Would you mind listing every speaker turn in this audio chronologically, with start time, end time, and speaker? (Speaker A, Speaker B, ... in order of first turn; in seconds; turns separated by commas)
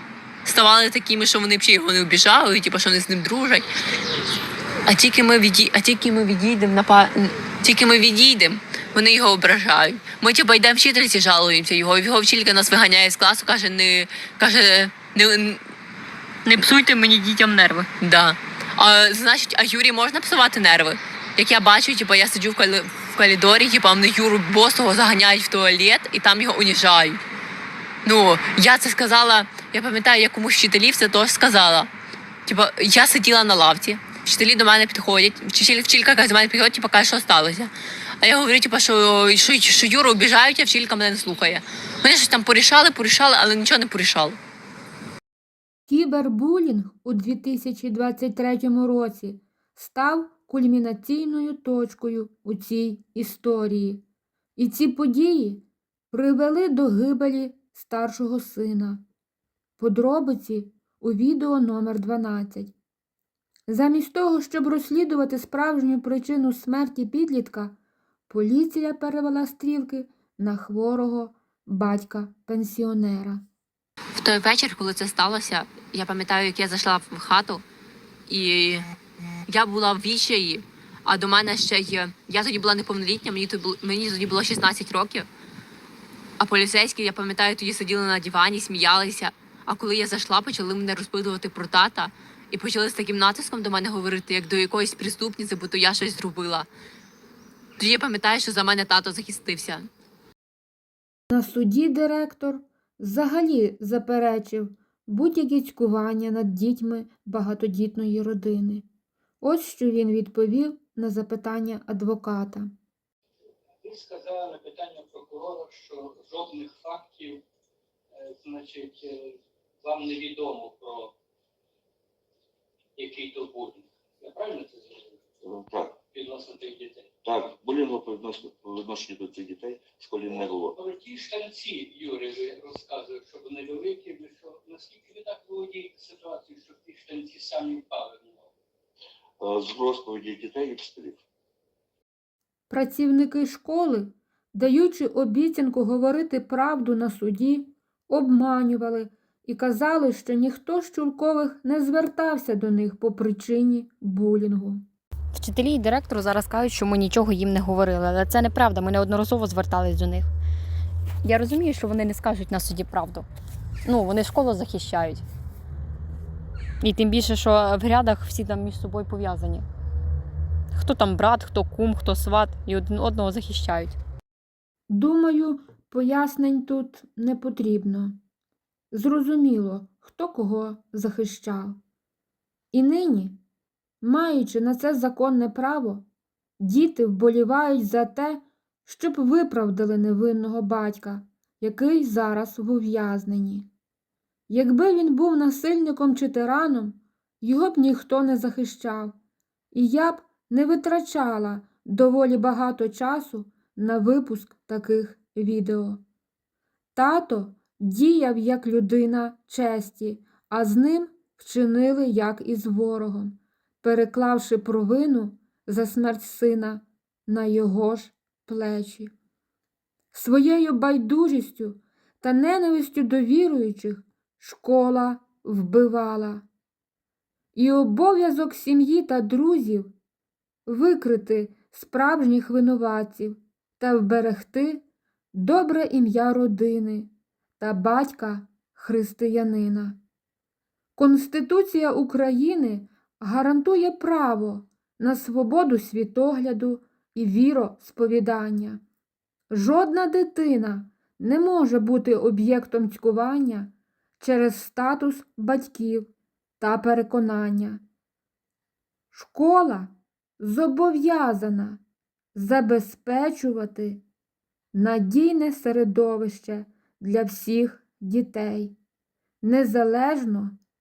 Speaker A: 0.4-3.6, Speaker A: 4.8-15.6, Speaker B: 16.4-17.9, Speaker A: 18.0-27.2, Speaker A: 28.0-31.9, Speaker A: 32.5-37.7, Speaker A: 38.2-44.4, Speaker C: 45.9-54.0, Speaker C: 54.6-59.0, Speaker C: 59.8-62.7, Speaker C: 63.7-67.7, Speaker C: 68.3-73.4, Speaker A: 74.2-77.6, Speaker A: 78.3-78.9, Speaker A: 79.5-85.3, Speaker A: 86.4-96.7, Speaker A: 97.8-99.9, Speaker C: 101.3-108.8, Speaker C: 109.4-112.7, Speaker D: 113.8-117.4, Speaker D: 118.1-121.1, Speaker D: 123.0-125.2, Speaker E: 125.4-126.0, Speaker D: 126.1-127.1, Speaker E: 127.2-130.8, Speaker D: 130.2-138.5, Speaker E: 139.4-141.2, Speaker C: 142.7-154.8, Speaker B: 155.3-160.3, Speaker B: 161.2-163.2, Speaker B: 163.8-165.2, Speaker B: 166.8-169.7, Speaker B: 170.7-174.0, Speaker C: 174.9-178.2, Speaker C: 178.9-181.8, Speaker C: 182.7-183.4, Speaker C: 184.0-186.0, Speaker C: 186.6-193.7, Speaker C: 194.5-199.1, Speaker C: 199.7-206.0, Speaker C: 206.9-219.1, Speaker C: 220.1-226.4, Speaker C: 227.5-229.9, Speaker C: 230.7-240.0, Speaker C: 240.9-248.8, Speaker C: 249.5-257.8, Speaker C: 259.1-261.8, Speaker C: 262.3-264.0, Speaker C: 264.7-268.7, Speaker C: 269.4-270.5